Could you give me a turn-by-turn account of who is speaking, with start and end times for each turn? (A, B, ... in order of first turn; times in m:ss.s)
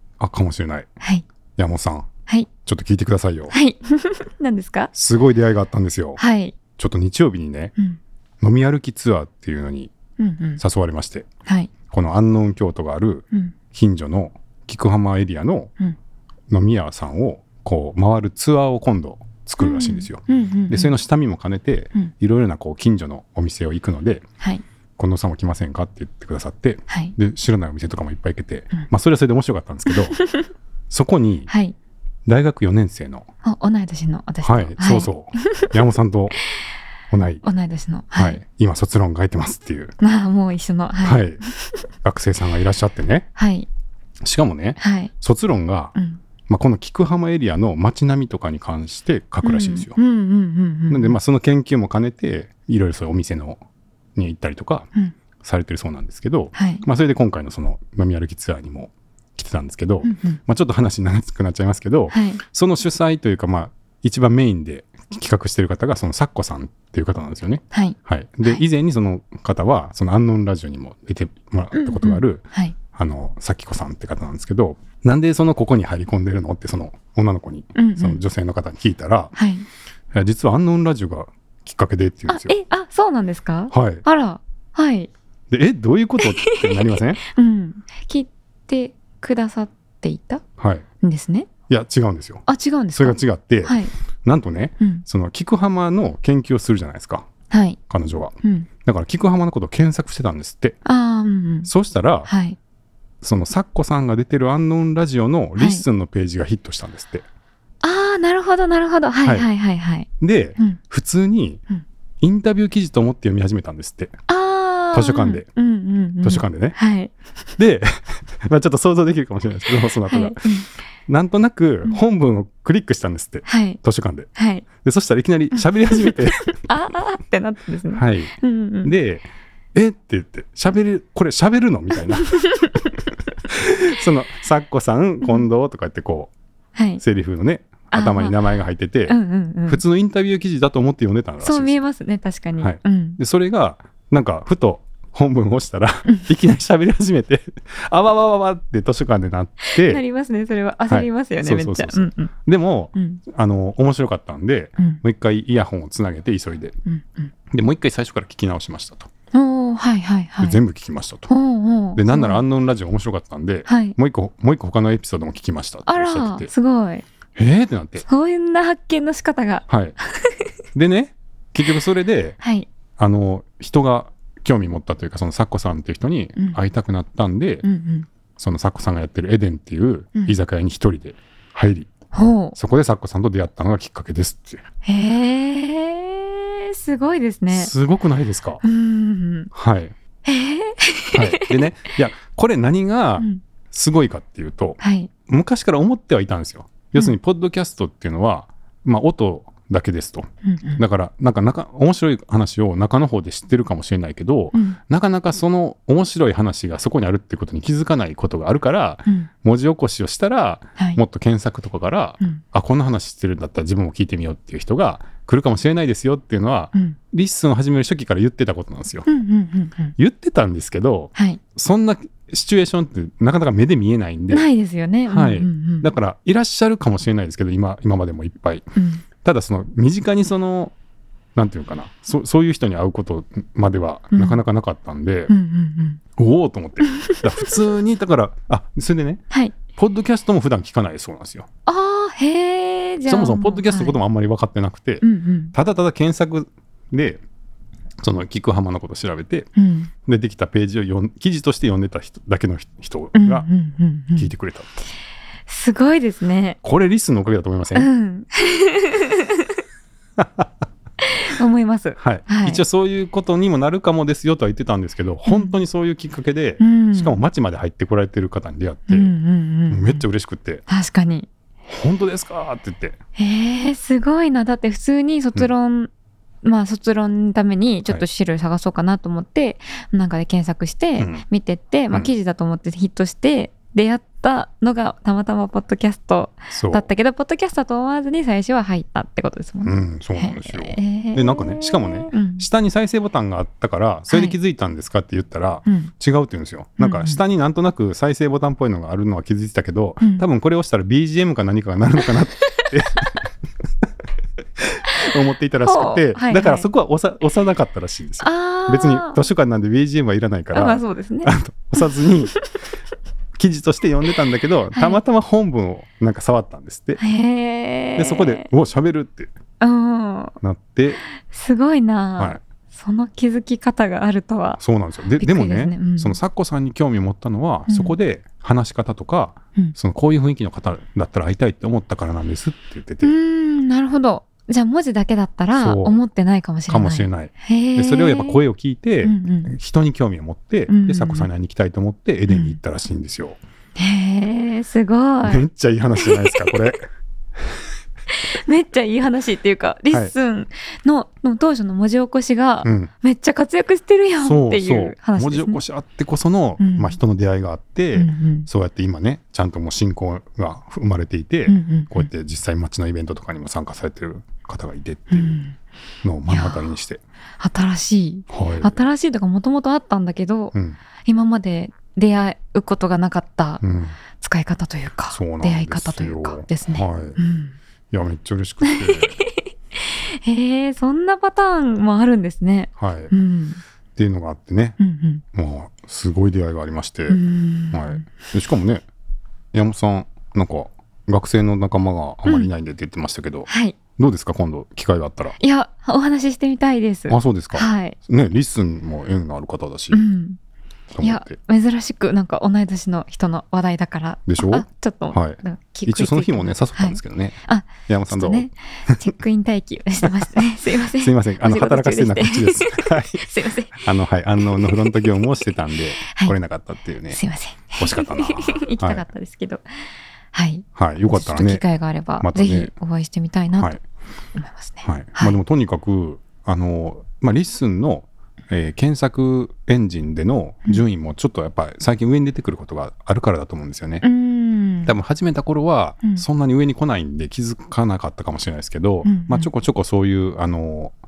0:00.2-0:00.9 A
0:01.0-0:01.2 B
0:01.6-0:02.1 A
0:02.6-0:03.5 A
0:03.5-0:04.9 B
0:04.9-0:06.2 A
0:06.2-0:06.6 B
0:06.8-0:07.7 A
0:08.4-0:09.9 A
0:10.2-0:10.6 B
0:10.6-0:11.3 A
0:11.4-0:11.7 B
0:11.9-0:15.7 A
0:16.5-0:24.2 A
0:19.6-0:20.9 B
0:25.0-0:30.2 A
0:26.9-0:27.1 B
0:30.9-0:31.5 A
0:31.5-0:31.7 B
0:32.2-0:33.3 A
0:33.4-0:35.7 B
0:34.4-0:36.4 A
0:37.1-0:37.4 A
0:37.4-0:38.4 B
0:38.2-0:40.0 A
0:40.0-0:41.2 B
0:41.0-0:41.4 A
0:42.0-0:43.3 A
0:43.4-0:43.7 B
0:44.2-0:45.9 A
0:44.8-0:45.1 B
0:45.9-0:46.2 B
0:46.5-0:50.0 A
0:49.4-0:51.2 B
0:50.9-0:53.6 A
0:54.2-0:54.9 A
0:55.4-1:19.3 A
0:56.5-0:56.8 B
1:00.0-1:00.4 B
1:02.1-1:02.4 B
1:07.7-1:08.6 B
1:11.7-1:12.8 B
1:17.7-1:18.2 B
1:19.3-1:19.7 B
1:20.1-1:22.5 A
1:22.3-1:25.1 B
1:23.7-1:24.0 A
1:25.5-1:27.2 A
1:26.2-1:30.4 B
1:30.6-1:30.8 A
1:31.0-1:31.5 B
1:31.7-1:37.3 A
1:32.5-1:33.9 B
1:34.8-1:35.0 B
1:37.5-1:37.8 B
1:37.9-1:40.8 A
1:38.4-1:38.7 B
1:40.8-1:41.7 B
1:41.6-1:42.3 A
1:42.3-1:42.6 B
1:43.2-1:47.2 A
1:45.6-1:45.8 B
1:47.8-1:50.8 B
1:50.2-1:51.6 A
1:52.2-1:54.2 A
1:54.3-1:57.1 B
1:54.9-1:55.4 A
1:56.2-1:56.8 A
1:57.6-2:00.4 A
2:00.0-2:00.7 B
2:01.1-2:04.3 A
2:03.4-2:03.8 B
2:04.3-2:04.6 B
2:04.8-2:06.6 A
2:05.5-2:08.9 B
2:07.9-2:12.4 A
2:12.4-2:12.9 B
2:13.5-2:16.3 A
2:16.7-2:17.0 B
2:17.0-2:19.2 A
2:17.9-2:18.4 B
2:19.1-2:19.8 B
2:19.7-2:21.8 A
2:21.4-2:23.2 B
2:22.6-2:30.0 A
2:29.8-2:32.3 B
2:30.9-2:36.8 A
2:32.9-2:33.2 B
2:36.8-2:37.3 B
2:37.5-2:39.1 A
2:39.3-2:40.6 B
2:40.4-2:41.3 A
2:41.3-2:42.4 B
2:42.0-2:46.5 A
2:43.7-2:44.0 B
2:45.9-2:47.0 B
2:47.4-2:48.0 A
2:48.0-2:49.6 B
2:49.7-2:50.0 A
2:50.7-2:52.4 A
2:52.4-2:52.7 B
2:53.0-2:57.6 A
2:57.6-2:58.1 B
2:58.4-3:01.9 A
3:02.1-3:02.6 B
3:02.5-3:04.6 A
3:04.8-3:07.7 B
3:07.5-3:08.6 A
3:08.6-3:09.5 B
3:09.5-3:09.9 A
3:10.2-3:11.7 B
3:11.1-3:39.0 A
3:14.8-3:15.1 B
3:20.4-3:20.8 B
3:24.5-3:24.8 B
3:39.0-3:40.0 B
3:40.0-3:44.5 A
3:41.1-3:41.4 B
3:44.3-3:45.9 B
3:45.1-3:48.7 A
3:48.8-3:49.0 B
3:49.2-3:50.7 A
3:51.4-3:55.3 A
3:54.1-3:54.4 B
3:55.3-3:56.0 B
3:56.2-4:01.5 A
3:59.3-3:59.6 B
4:01.6-4:04.0 B
4:03.0-4:07.2 A
4:05.0-4:05.5 B
4:08.0-4:09.5 A
4:09.5-4:09.9 B
4:10.0-4:13.5 A
4:13.1-4:14.3 B
4:14.1-4:14.7 A
4:15.5-4:16.6 B
4:16.6-4:17.9 A
4:17.7-4:19.5 B
4:20.2-4:20.5 A
4:21.0-4:22.6 B
4:22.0-4:29.1 A
4:25.3-4:25.5 B
4:26.6-4:27.2 B
4:28.9-4:30.0 B
4:29.7-4:30.6 A
4:30.7-4:31.3 B
4:31.6-4:33.0 A
4:33.2-4:35.9 B
4:36.4-4:52.5 B
4:41.0-4:41.2 A
4:46.5-4:46.8 A
4:49.6-5:03.2 A
4:54.1-4:54.4 B
4:55.6-4:55.9 B
4:56.8-4:57.2 B
5:04.6-5:12.4 A
5:05.6-5:06.7 B
5:08.2-5:09.2 B
5:10.5-5:12.4 B
5:13.4-5:17.0 A
5:14.7-5:15.0 B
5:17.0-5:18.5 B
5:18.0-5:19.3 A
5:19.6-5:20.4 B
5:20.4-5:21.0 A
5:21.2-5:24.6 B
5:24.6-5:33.1 A
5:25.2-5:26.2 B
5:27.7-5:28.0 B
5:33.0-5:38.4 B
5:35.6-5:36.0 A
5:36.7-5:43.4 A
5:39.0-5:39.5 B
5:40.7-5:41.3 B
5:42.3-5:42.6 B
5:43.8-5:46.7 B
5:45.2-5:46.9 A
5:48.1-5:55.6 B
5:52.6-5:52.9 A
5:54.2-6:05.4 A
5:56.6-5:57.0 B
5:57.9-5:58.5 B
6:01.5-6:02.1 B
6:05.1-6:05.6 B
6:06.0-6:07.0 A
6:06.3-6:06.7 B
6:07.4-6:10.5 B
6:08.3-6:08.7 A
6:10.5-6:10.8 A
6:11.0-6:13.6 B
6:13.6-6:14.0 A
6:14.1-6:17.5 B
6:15.1-6:17.2 A
6:17.9-6:19.2 A
6:18.6-6:23.6 B
6:22.8-6:23.1 A
6:24.0-6:24.8 A
6:24.8-6:25.2 B
6:25.3-6:27.2 A
6:27.1-6:28.1 B
6:27.7-6:28.8 A
6:29.5-6:35.4 A
6:33.5-6:33.8 B
6:35.4-6:38.0 B
6:37.1-6:40.0 A
6:39.9-6:40.4 B
6:40.9-6:41.4 A
6:41.0-6:53.8 B
6:44.3-6:49.0 A
6:51.0-6:57.2 A
6:54.5-6:55.4 B
6:56.0-6:56.3 B
6:57.1-6:59.6 B
6:57.8-6:59.0 A
7:00.3-7:03.7 B
7:00.8-7:01.6 A
7:02.2-7:02.7 A
7:04.3-7:05.4 B
7:04.8-7:14.0 A
7:14.0-7:14.9 B
7:14.8-7:20.9 A
7:19.0-7:19.5 B